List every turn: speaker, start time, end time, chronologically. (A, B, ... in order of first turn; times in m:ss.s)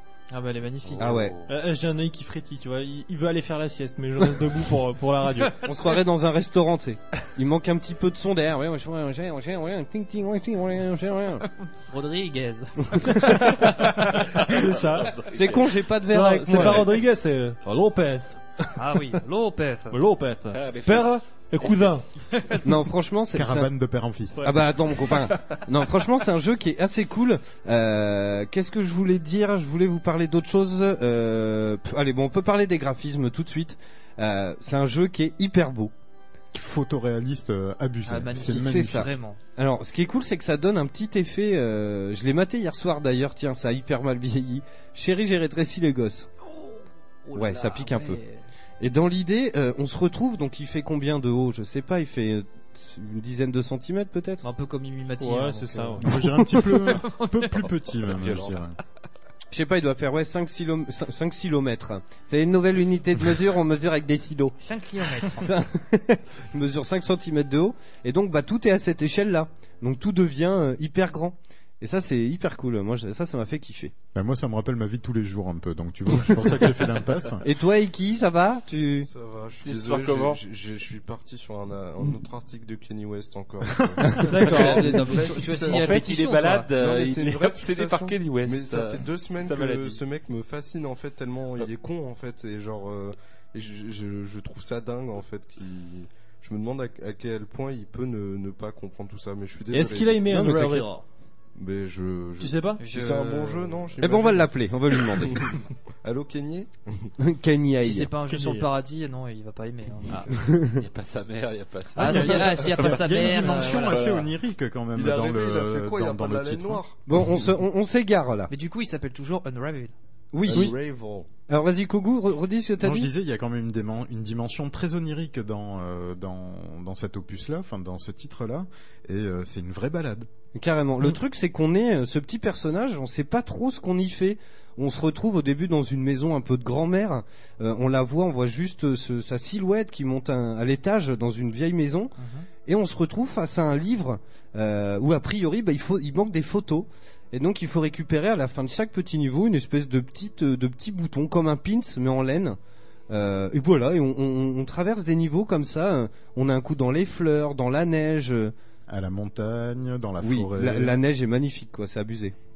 0:00.3-0:01.2 A
0:00.8-0:01.5 B
0:01.0-0:01.4 C
0:01.5-0:05.6 D
0:05.6-0:11.4 C
0:11.7-0:13.6 A
0:13.0-0:15.1 D
0:14.5-0:15.8 B
0:15.3-0:17.0 C
0:16.1-0:18.8 D
0:18.8-0:20.0 A
0:19.9-0:22.1 D
0:20.5-0:22.4 B
0:22.6-0:23.7 C
0:23.3-0:24.5 E
0:24.4-0:35.9 C
0:25.3-0:25.6 D
0:36.5-0:39.1 E
0:38.0-0:39.4 A
0:38.4-0:46.3 C
0:46.5-0:48.4 A
0:47.3-0:48.2 C
0:48.8-0:54.4 C
0:54.4-0:56.1 A
0:55.2-0:56.1 D
0:56.0-0:58.8 E
0:56.6-0:57.5 A
0:58.0-0:58.6 B
0:59.5-1:04.6 C
1:04.6-1:05.5 A
1:05.2-1:13.9 C
1:14.1-1:17.4 E
1:17.4-1:19.1 C
1:19.1-1:26.0 F
1:19.6-1:20.4 B
1:24.2-1:25.4 D
1:24.3-1:26.7 A
1:24.5-1:24.8 B
1:25.7-1:30.0 B
1:26.7-1:40.3 F
1:39.7-1:41.0 D
1:40.3-1:40.9 C
1:41.6-1:47.1 F
1:42.4-1:42.8 D
1:42.8-1:43.8 A
1:44.0-1:45.5 C
1:47.2-1:48.1 C
1:47.8-1:50.5 A
1:48.3-1:48.7 D
1:50.3-1:50.8 C
1:50.8-1:54.3 B
1:52.0-1:52.6 D
1:52.0-1:54.0 A
1:52.6-1:56.8 E
1:54.9-1:57.0 F
1:57.0-1:58.5 C
1:58.5-1:59.9 A
2:00.3-2:00.8 C
2:00.4-2:01.3 F
2:01.5-2:03.1 C
2:02.8-2:10.3 E
2:10.5-2:22.1 C
2:22.2-2:22.5 A
2:22.6-2:32.6 C
2:33.1-2:38.5 C
2:38.9-2:41.0 E
2:40.2-2:42.3 C